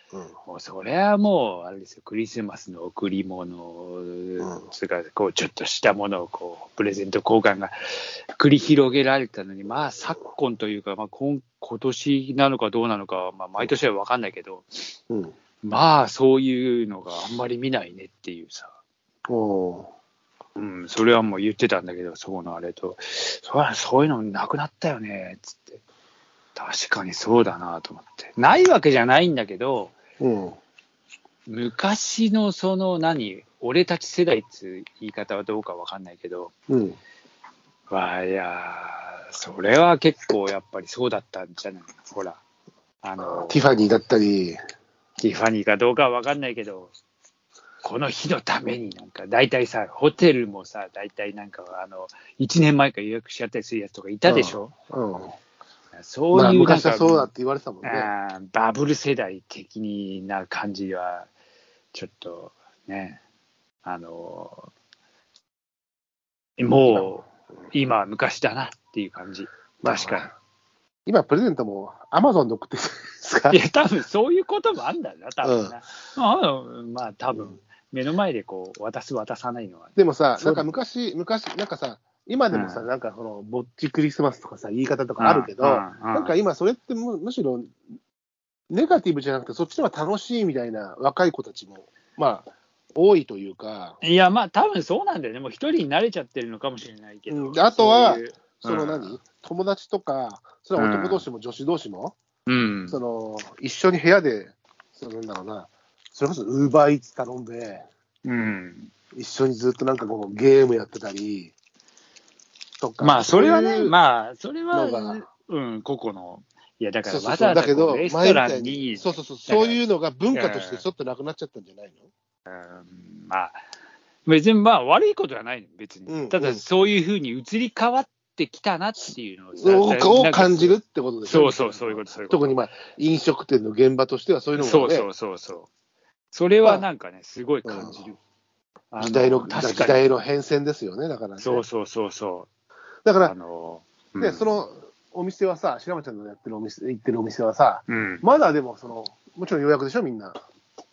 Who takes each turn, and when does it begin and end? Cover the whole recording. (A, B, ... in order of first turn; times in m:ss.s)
0:00.4-0:07.7 A
0:04.4-0:04.6 B
0:08.3-0:14.9 A
0:15.6-0:18.7 A
0:19.3-0:19.9 B
0:20.6-0:25.8 A
0:26.5-0:29.9 A
0:30.2-0:30.6 B
0:31.5-0:36.5 A
0:36.7-0:37.0 B
0:37.9-0:42.4 A
0:43.0-0:43.7 A
0:43.2-0:44.6 B
0:45.2-0:46.9 A
0:47.8-0:54.7 A
0:54.3-0:55.4 B
0:55.9-0:57.3 A
0:56.3-0:58.1 B
0:57.8-1:01.3 A
1:01.9-1:03.2 A
1:03.8-1:04.7 A
1:06.6-1:10.3 A
1:06.9-1:07.1 B
1:09.8-1:10.3 B
1:11.0-1:13.6 B
1:13.5-1:20.7 A
1:15.4-1:15.8 B
1:20.0-1:27.7 B
1:22.5-1:22.9 A
1:25.2-1:26.3 A
1:28.7-1:34.0 B
1:34.0-1:39.2 A
1:37.3-1:42.2 B
1:40.8-1:41.2 A
1:42.5-1:43.0 A
1:42.9-1:47.9 B
1:48.2-1:48.9 A
1:49.1-1:51.5 B
1:52.8-1:53.9 B
1:53.0-1:59.8 A
1:54.7-1:55.2 B
1:57.0-2:02.0 B
2:00.3-2:00.8 A
2:02.5-2:03.6 A
2:04.2-2:12.6 A
2:06.1-2:06.6 B
2:09.6-2:15.1 B
2:14.5-2:15.7 A
2:16.3-2:18.2 A
2:17.6-2:18.0 B
2:18.9-2:20.0 A
2:19.0-2:21.6 B
2:21.4-2:22.5 A
2:23.0-2:23.3 B
2:23.2-2:24.4 A
2:24.2-2:30.4 B
2:27.9-2:28.2 A